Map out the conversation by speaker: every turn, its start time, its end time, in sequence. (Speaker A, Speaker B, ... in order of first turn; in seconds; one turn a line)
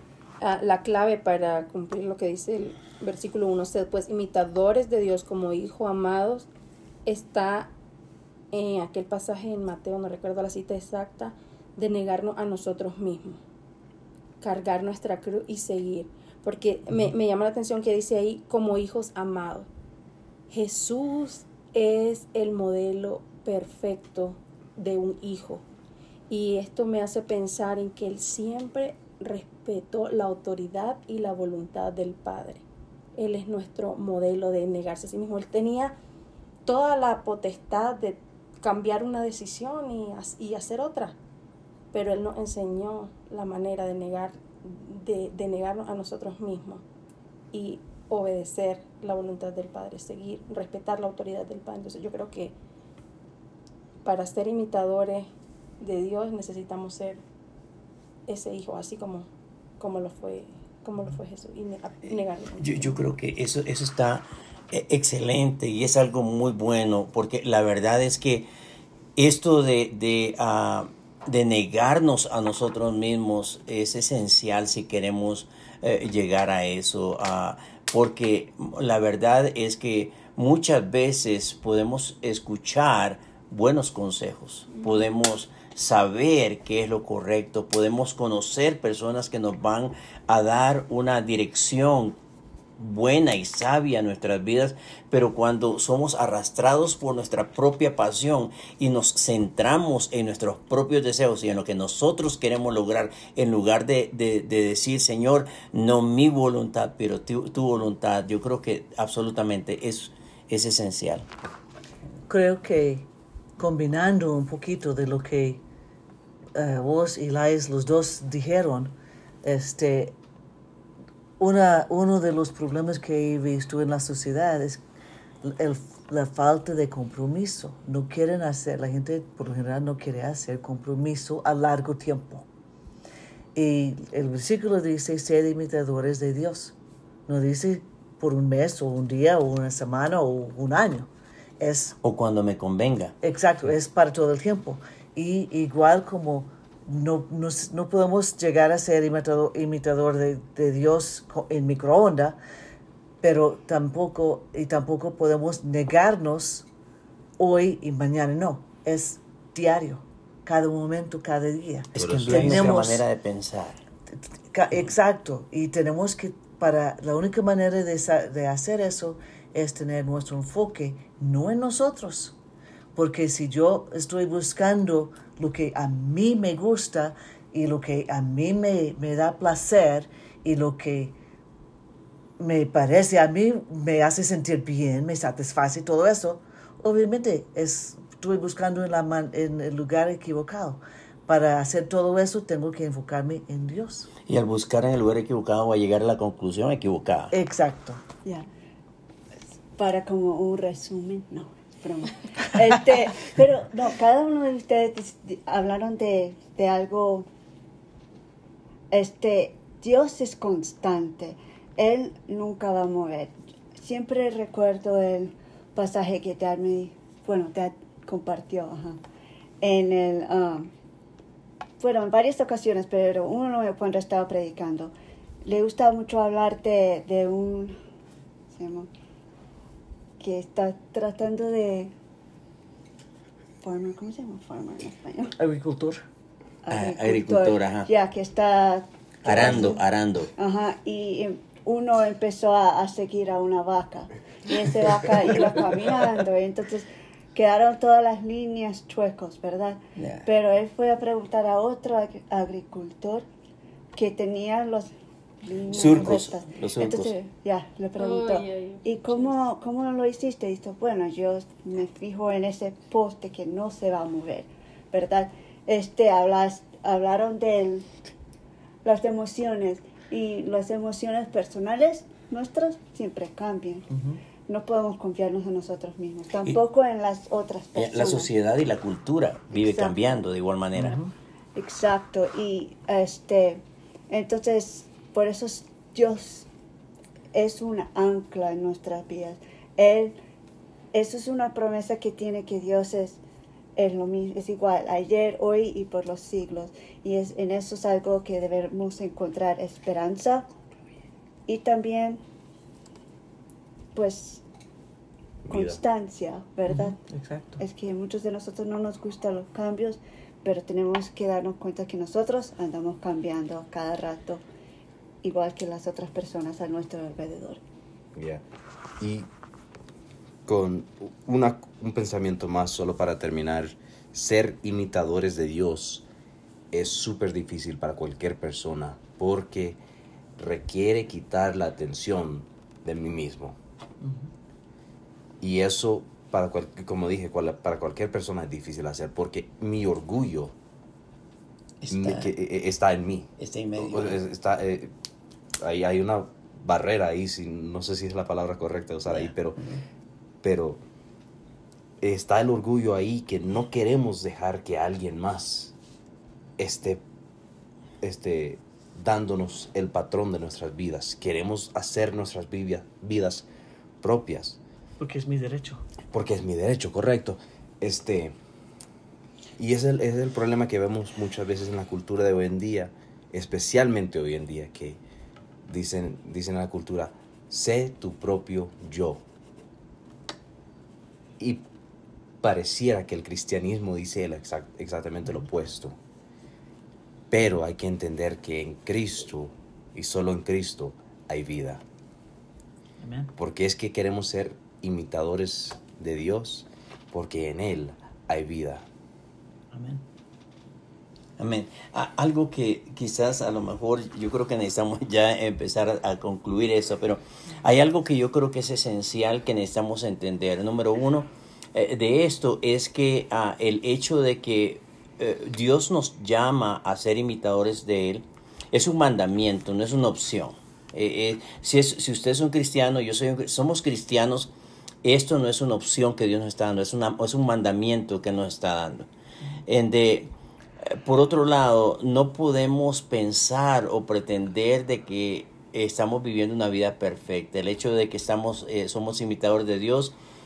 Speaker A: 0.4-6.5
Speaker A: 7.0-7.7
Speaker A: 8.5-13.4
Speaker A: 14.4-19.7
Speaker A: 20.5-25.6
Speaker A: 26.3-32.6
Speaker A: 33.1-36.0
Speaker A: 36.6-41.1
Speaker A: 41.9-46.8
Speaker A: 47.5-52.5
Speaker A: 54.0-55.3
Speaker A: 55.8-57.2
Speaker A: 58.3-59.3
Speaker A: 59.8-63.0
Speaker B: 62.6-68.5
Speaker B: 69.2-92.2
Speaker B: 92.8-111.3
Speaker C: 112.3-113.1
Speaker C: 113.6-115.6
Speaker C: 116.5-120.1
Speaker C: 121.4-124.8
Speaker C: 125.4-132.4
Speaker C: 133.5-136.7
Speaker C: 137.3-141.9
Speaker B: 142.0-143.1
Speaker C: 143.2-152.4
Speaker C: 153.2-156.7
Speaker C: 157.4-163.0
Speaker D: 161.9-162.7
Speaker B: 161.9-163.8
Speaker C: 164.5-172.3
Speaker C: 172.9-181.2
Speaker C: 182.4-194.1
Speaker B: 194.3-197.3
Speaker C: 197.3-198.0
Speaker E: 199.8-207.3
Speaker E: 208.9-219.0
Speaker E: 219.6-220.7
Speaker E: 221.8-224.9
Speaker E: 225.4-227.8
Speaker E: 228.5-228.9
Speaker E: 230.2-231.9
Speaker E: 233.6-235.3
Speaker C: 235.4-236.0
Speaker E: 236.6-239.8
Speaker B: 236.7-237.9
Speaker B: 239.2-240.3
Speaker E: 240.4-253.2
Speaker B: 250.0-250.2
Speaker E: 253.9-254.9
Speaker E: 255.4-267.9
Speaker B: 255.7-257.1
Speaker A: 257.9-259.4
Speaker E: 268.8-273.9
Speaker C: 273.9-274.2
Speaker E: 274.5-278.3
Speaker B: 277.7-281.0
Speaker E: 279.5-279.9
Speaker C: 280.7-281.1
Speaker E: 281.5-286.5
Speaker E: 287.3-290.2
Speaker E: 290.9-293.2
Speaker E: 293.8-300.5
Speaker E: 301.5-302.2
Speaker E: 303.9-304.4
Speaker D: 305.4-305.8
Speaker E: 305.5-307.0
Speaker C: 306.7-307.6
Speaker E: 307.6-314.4
Speaker E: 315.2-317.6
Speaker D: 318.1-318.4
Speaker D: 319.0-319.3
Speaker D: 320.4-326.0
Speaker D: 326.7-329.8
Speaker D: 330.4-333.6
Speaker C: 334.0-334.3
Speaker D: 335.4-340.5
Speaker B: 341.8-342.3
Speaker D: 341.9-344.9
Speaker B: 343.4-344.2
Speaker D: 345.6-349.6
Speaker B: 349.1-349.8
Speaker D: 350.4-350.8
Speaker D: 352.0-355.7
Speaker D: 356.6-357.0
Speaker D: 358.0-363.5
Speaker D: 364.0-364.6
Speaker C: 365.0-365.8
Speaker D: 366.1-368.4
Speaker D: 369.6-375.0
Speaker D: 375.6-379.2
Speaker D: 381.4-381.6
Speaker D: 382.4-386.0
Speaker D: 387.3-391.8
Speaker C: 393.0-393.3
Speaker D: 393.4-398.9
Speaker C: 399.7-400.0
Speaker B: 401.4-424.5
Speaker B: 425.0-429.1
Speaker B: 429.7-430.3
Speaker B: 430.8-440.1